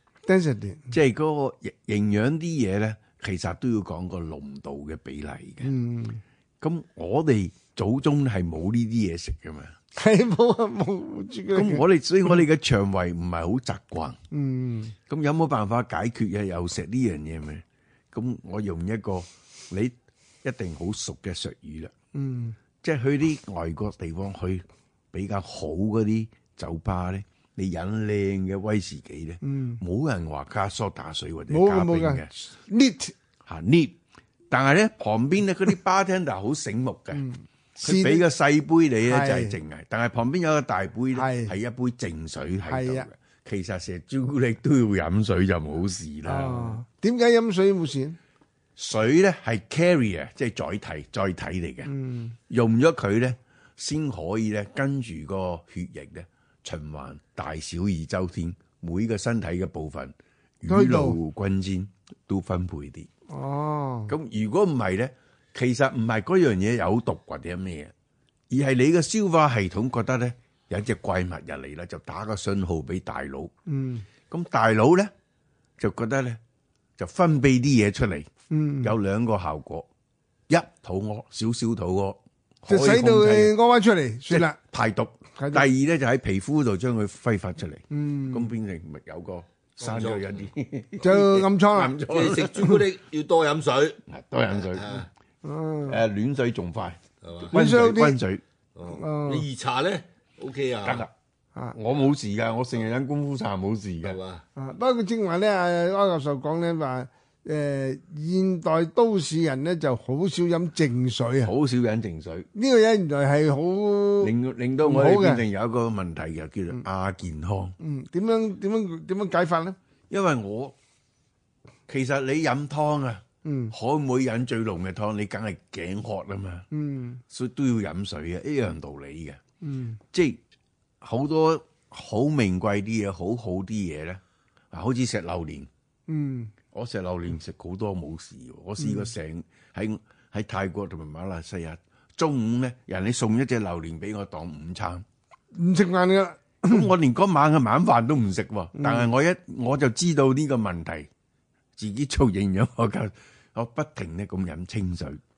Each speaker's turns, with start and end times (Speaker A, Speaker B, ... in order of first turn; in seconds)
Speaker A: 0.2-0.9, 5.6-6.2, 9.9-12.3, 14.3-14.9, 22.1-22.6, 29.4-29.8, 31.5-33.1, 37.1-38.2, 39.0-39.5, 41.1-41.5, 42.7-43.1, 46.2-48.2, 51.8-52.4, 60.7-61.1, 63.3-64.1, 73.7-74.0, 78.5-78.9, 82.7-84.6, 85.3-85.7, 87.9-88.5, 91.0-92.0, 95.4-96.0, 97.5-98.2, 98.9-99.5, 104.6-111.5, 112.5-115.4, 117.8-119.8, 123.4-123.7, 126.7-127.2, 129.6-130.0, 136.1-136.5, 138.8-139.1, 145.5-146.9, 148.7-149.1
Speaker B: 0.9-5.7, 6.6-9.7, 11.5-14.2, 15.1-21.9, 22.8-32.3, 33.5-34.0, 34.5-37.2, 37.8-46.8, 48.8-51.9, 52.5-63.1, 64.1-67.9, 68.5-73.5, 74.3-75.1, 75.8-76.4, 77.0-78.3, 78.8-79.9, 80.5-83.5, 84.3-92.7, 94.1-95.0, 95.9-98.4, 100.8-101.1, 101.7-104.2, 111.4-112.5, 114.2-117.7, 120.1-120.7, 121.9-126.7, 127.3-129.4, 130.1-130.4, 131.0-134.2, 134.7-135.7, 136.7-145.0, 146.6-151.1, 151.8-155.2
Speaker C: 89.8-90.4, 92.0-94.0, 94.6-95.1, 97.2-97.5, 98.8-101.0, 104.0-104.4